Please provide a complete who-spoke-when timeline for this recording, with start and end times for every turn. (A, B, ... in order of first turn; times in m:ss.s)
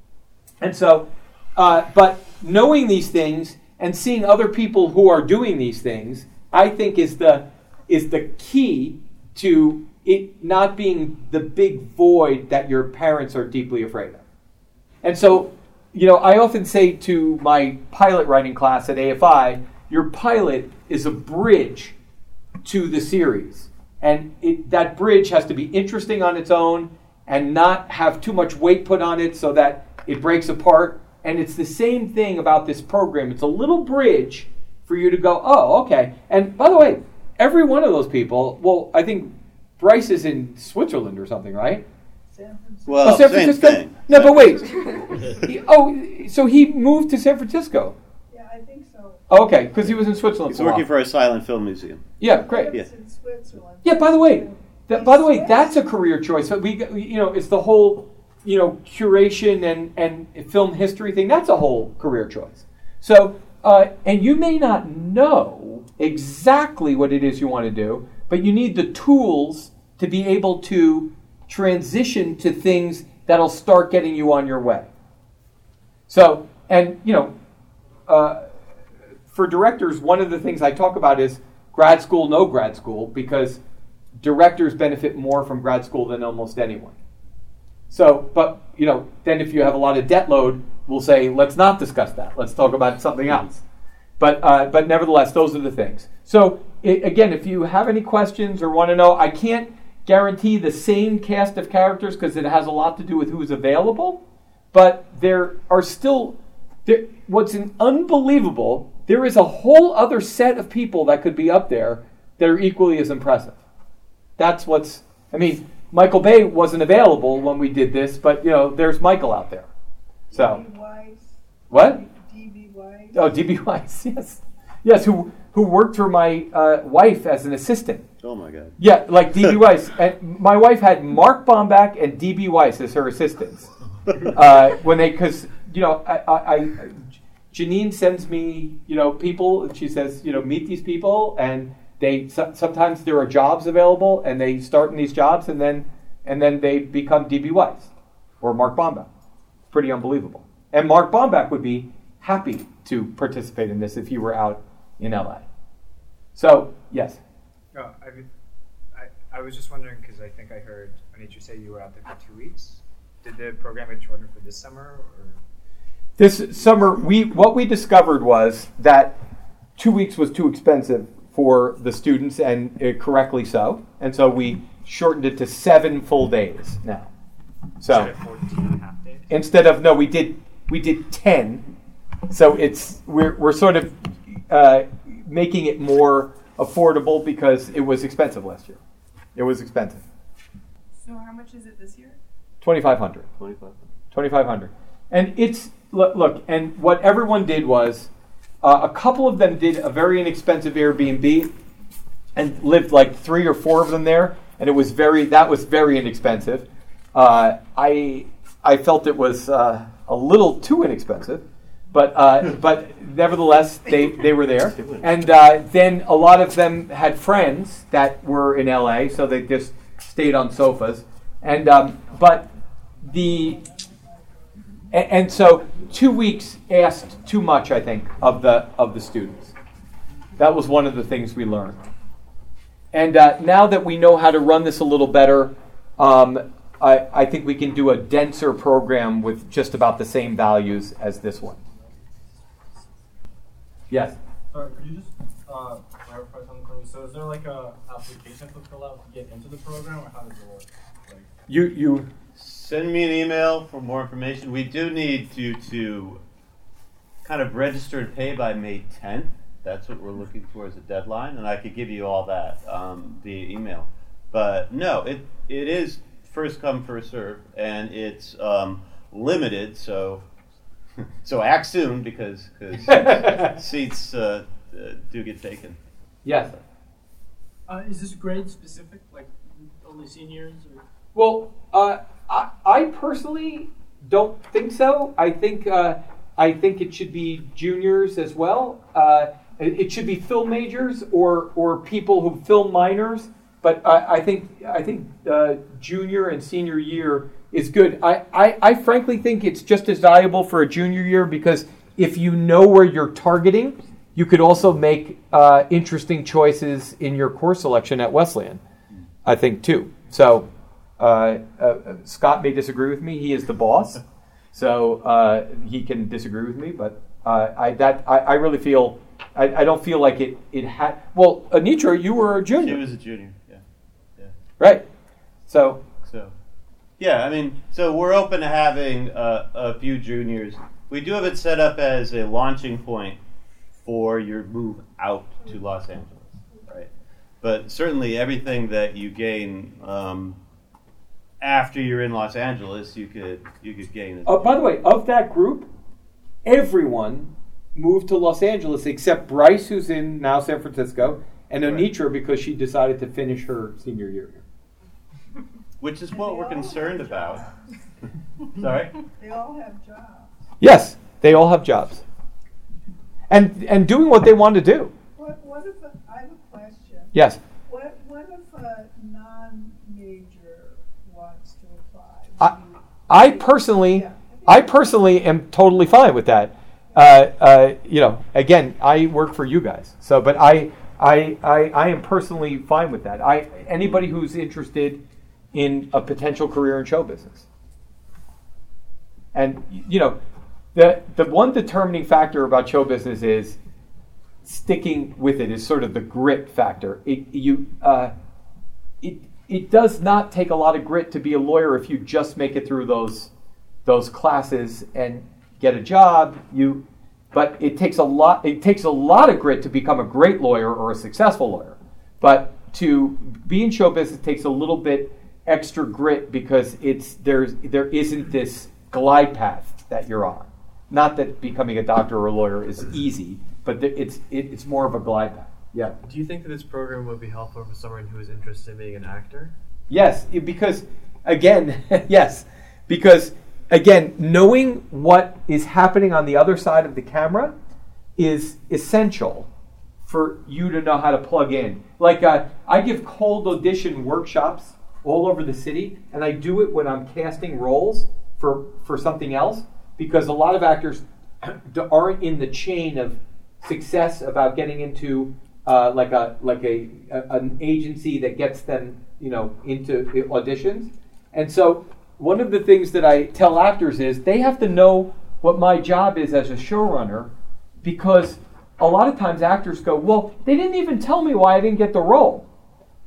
0:00.6-0:14.2 A
0:15.0-0:22.0 A
0:22.6-0:41.8 A
0:42.3-0:43.2 B
0:42.8-0:44.9 C
0:43.0-0:48.0 A
0:48.3-0:49.2 B
0:49.3-0:50.8 A
0:50.5-0:52.1 C
0:52.2-0:52.8 A
0:52.2-0:55.8 B
0:53.8-1:14.9 A
1:16.1-1:17.3 A
1:18.1-1:18.5 A
1:19.3-1:23.6 A
1:24.2-1:26.9 A
1:27.9-1:33.6 A
1:34.2-1:44.2 A
1:44.7-1:53.6 A
1:54.4-1:59.7 A
2:00.3-2:00.6 A
2:00.3-2:03.4 B
2:01.7-2:02.0 A
2:03.1-2:08.0 A
2:08.2-2:08.8 C
2:08.8-2:13.7 A
2:14.2-2:29.1 A
2:29.7-2:35.5 A
2:36.3-2:37.2 A
2:37.7-2:38.2 D
2:38.9-2:45.4 D
2:46.2-2:49.2 A
2:49.8-2:57.1 A
2:57.8-2:58.2 A
2:57.8-2:59.3 D
2:59.3-3:01.6 A
3:02.3-3:08.8 A
3:09.3-3:10.0 A
3:12.6-3:13.3 A
3:13.4-3:13.7 C
3:14.1-3:18.1 A
3:18.6-3:21.5 A
3:22.3-3:42.5 A
3:34.8-3:35.0 C
3:43.0-3:43.6 A
3:43.0-3:44.8 B
3:44.9-3:49.5 A
3:50.4-3:51.8 A
3:52.9-4:01.6 A
4:03.9-4:04.2 A
4:04.5-4:11.3 E
4:11.5-4:12.1 A
4:12.3-4:16.2 C
4:17.2-4:30.2 C
4:31.2-4:35.8 C
4:32.8-4:33.5 A
4:36.2-4:36.6 A
4:37.7-4:40.8 E
4:41.1-5:08.6 A
5:09.2-5:10.5 A
5:11.0-5:14.0 A
5:14.5-5:22.8 A
5:22.6-5:23.6 C
5:24.6-5:24.8 A
5:25.5-5:25.8 A
5:26.0-5:26.3 C
5:27.0-5:33.2 C
5:33.8-5:36.9 C
5:37.4-5:40.4 C
5:41.4-5:44.5 C
5:44.2-5:45.7 A
5:46.4-5:54.4 A
5:55.8-5:57.4 C
5:56.1-5:57.6 B
5:58.5-5:58.9 C
5:59.1-6:00.4 B
6:00.6-6:02.0 A
6:03.3-6:04.9 A
6:05.1-6:07.1 B
6:07.1-6:07.4 A
6:07.6-6:15.1 B
6:13.1-6:25.0 A
6:25.5-6:27.5 A
6:29.3-6:30.2 A
6:30.7-6:33.6 A
6:34.4-6:38.1 A
6:39.0-6:43.3 A
6:43.8-7:06.0 A
7:06.0-7:09.5 F
7:09.9-7:17.5 A
7:18.2-7:19.5 A
7:20.0-7:47.3 A
7:47.8-7:52.4 A